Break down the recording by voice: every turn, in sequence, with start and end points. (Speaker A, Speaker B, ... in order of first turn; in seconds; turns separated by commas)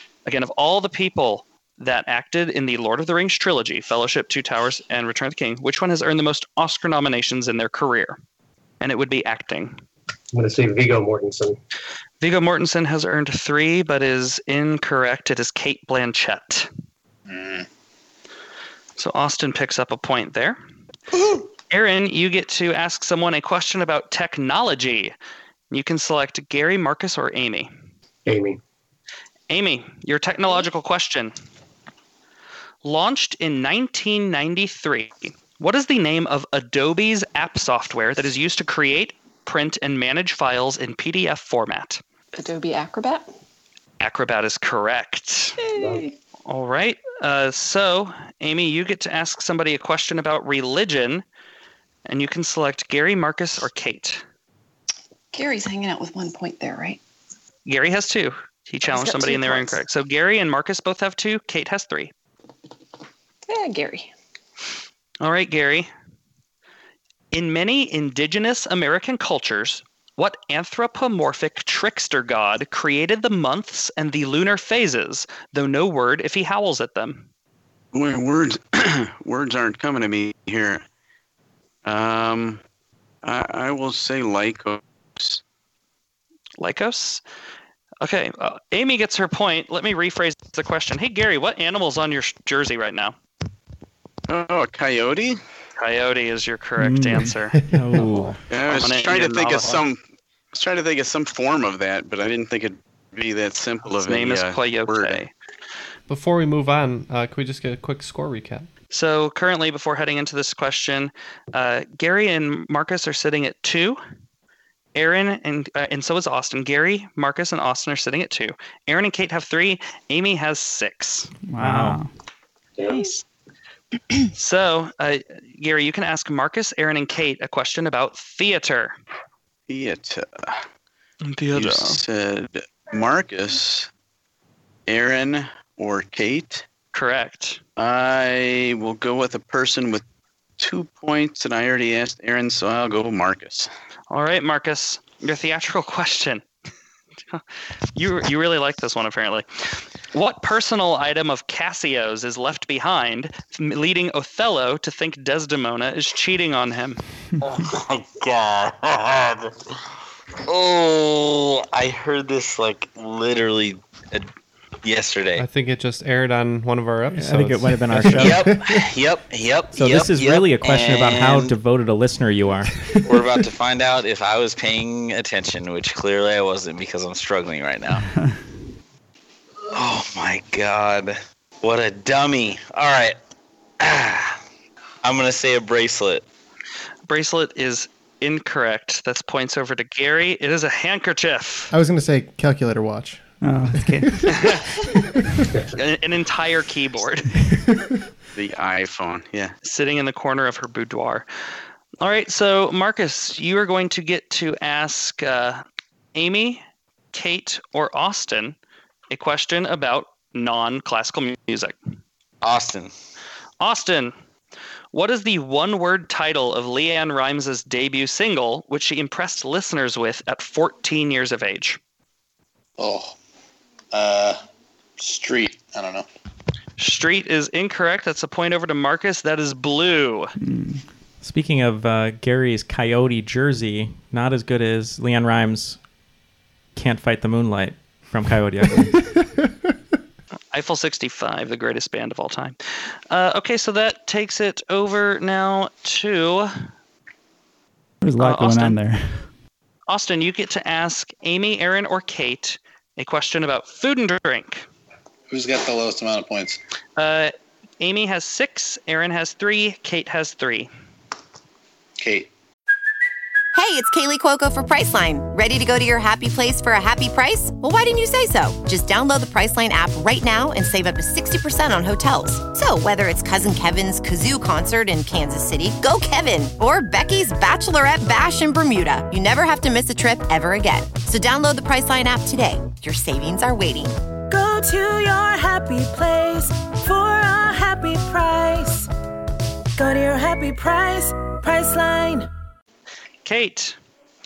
Speaker A: 0.2-8.2, Speaker A: 8.8-9.8, Speaker B: 10.3-11.6, Speaker A: 12.2-16.7, Speaker C: 17.3-17.6, Speaker A: 19.0-20.6, Speaker C: 21.1-21.5, Speaker A: 21.7-25.1, Speaker A: 25.7-27.7, Speaker B: 28.2-28.6, Speaker A: 29.5-31.3, Speaker A: 32.8-42.0, Speaker D: 42.3-43.3, Speaker A: 44.0-45.6, Speaker D: 45.6-46.1, Speaker B: 45.8-46.0, Speaker A: 46.5-51.2, Speaker A: 52.0-54.2, Speaker D: 55.3-57.0, Speaker A: 57.6-62.1, Speaker D: 58.8-59.8, Speaker D: 63.5-64.1, Speaker A: 65.2-65.9, Speaker A: 67.3-77.3, Speaker E: 77.9-80.8, Speaker E: 81.8-82.6, Speaker E: 83.2-85.4, Speaker A: 86.6-87.2, Speaker A: 88.0-93.1, Speaker E: 94.3-95.4, Speaker A: 95.8-97.6, Speaker F: 96.8-97.3, Speaker G: 97.7-98.1, Speaker H: 97.7-98.4, Speaker E: 98.5-100.0, Speaker A: 98.7-99.8, Speaker E: 100.5-105.2, Speaker A: 103.9-105.3, Speaker I: 106.1-108.7, Speaker A: 108.9-114.0, Speaker A: 114.9-121.3, Speaker F: 121.5-122.1, Speaker H: 121.6-122.0, Speaker B: 122.8-123.0, Speaker A: 124.3-128.9, Speaker E: 129.7-130.6, Speaker A: 131.2-132.0, Speaker E: 131.5-133.9, Speaker E: 134.9-136.7, Speaker A: 136.9-137.6, Speaker E: 137.8-140.0, Speaker E: 140.6-143.7, Speaker A: 144.1-146.4, Speaker A: 147.9-157.0, Speaker J: 157.4-159.5, Speaker J: 160.5-164.3, Speaker J: 164.8-165.5, Speaker I: 165.4-168.4, Speaker H: 167.1-168.5, Speaker G: 167.9-168.8, Speaker J: 168.1-171.6, Speaker H: 169.7-172.8, Speaker G: 172.8-173.0, Speaker J: 173.1-178.0, Speaker J: 179.7-183.2, Speaker J: 183.8-184.4, Speaker J: 185.0-186.2, Speaker A: 187.1-191.7, Speaker G: 191.7-194.1, Speaker F: 193.4-194.2, Speaker A: 194.3-194.6, Speaker A: 195.7-197.3, Speaker E: 198.3-199.5, Speaker A: 199.6-201.3, Speaker A: 202.0-205.6, Speaker A: 206.1-208.6, Speaker A: 209.1-211.8, Speaker J: 212.4-212.9, Speaker A: 213.6-214.1, Speaker A: 214.9-221.8, Speaker C: 222.8-223.2, Speaker C: 223.9-224.4, Speaker C: 225.0-226.1, Speaker A: 226.8-230.3, Speaker F: 230.4-230.8, Speaker H: 231.2-235.8, Speaker H: 236.8-239.0, Speaker G: 238.8-239.3, Speaker A: 240.5-246.7, Speaker F: 248.0-249.3, Speaker A: 248.2-248.8, Speaker A: 249.9-254.7, Speaker C: 255.3-256.6, Speaker A: 257.0-260.7, Speaker C: 262.0-262.3, Speaker K: 263.5-283.9, Speaker L: 284.3-288.9, Speaker L: 289.8-292.3, Speaker A: 293.2-293.8